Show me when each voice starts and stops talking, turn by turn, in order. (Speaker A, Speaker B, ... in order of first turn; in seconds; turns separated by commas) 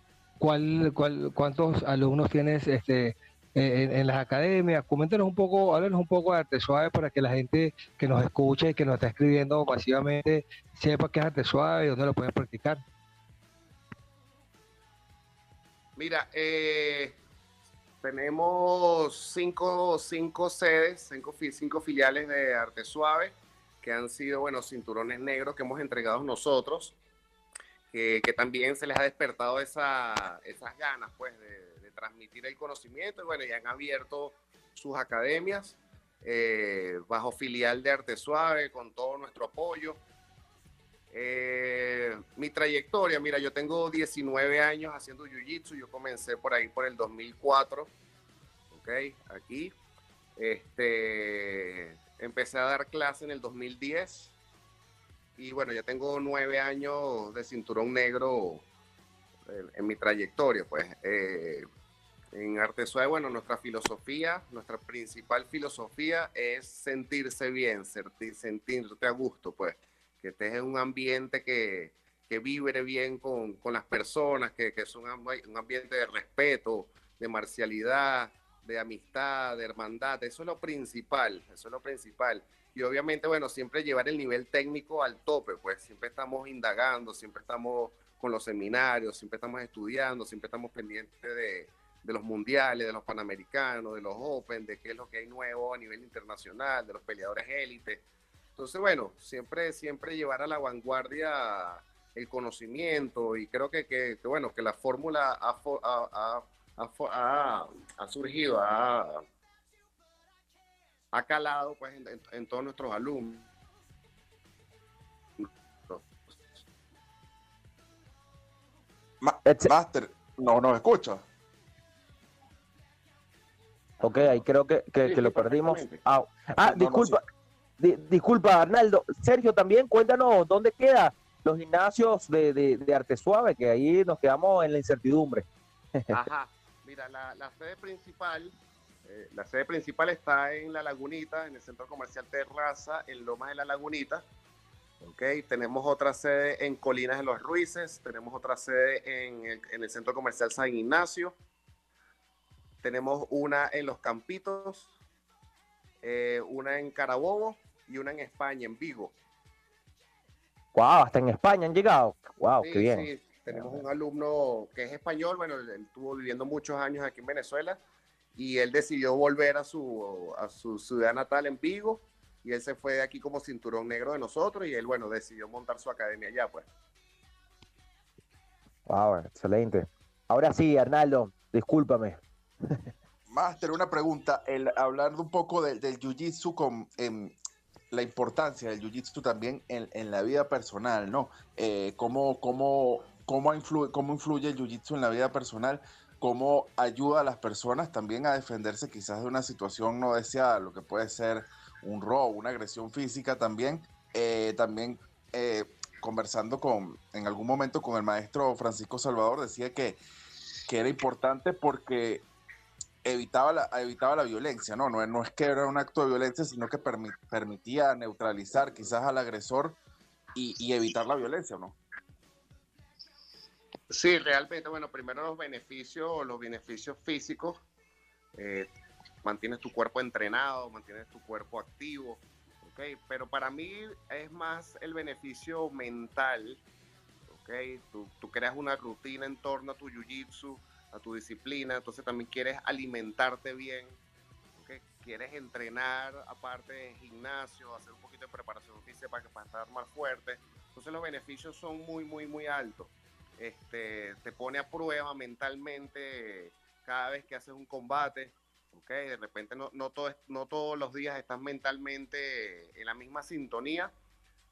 Speaker A: 0.4-12.8, Speaker B: 16.0-17.2, Speaker B: 18.0-26.9, Speaker B: 27.9-40.0, Speaker B: 41.1-47.9, Speaker B: 48.7-49.7, Speaker B: 50.4-54.4, Speaker B: 55.4-58.6, Speaker B: 59.5-61.7, Speaker B: 62.3-98.0, Speaker B: 98.6-109.2, Speaker B: 111.1-113.5, Speaker B: 115.4-116.1, Speaker C: 119.2-121.2, Speaker D: 119.4-119.7, Speaker B: 124.0-124.4, Speaker D: 124.0-127.2, Speaker B: 125.0-126.0, Speaker C: 126.7-127.2, Speaker D: 127.8-135.5, Speaker B: 136.1-138.6, Speaker B: 139.1-144.2, Speaker B: 145.0-151.3, Speaker B: 152.8-154.9, Speaker B: 156.0-159.1, Speaker D: 160.8-163.8, Speaker B: 162.6-167.8, Speaker B: 168.4-176.7, Speaker D: 178.9-182.9, Speaker C: 183.3-187.3, Speaker C: 187.9-210.0, Speaker C: 210.7-212.2, Speaker C: 213.1-219.8, Speaker C: 220.3-221.8, Speaker B: 223.9-227.6, Speaker B: 228.4-228.7, Speaker B: 229.2-236.6, Speaker B: 237.3-244.0, Speaker B: 244.6-263.9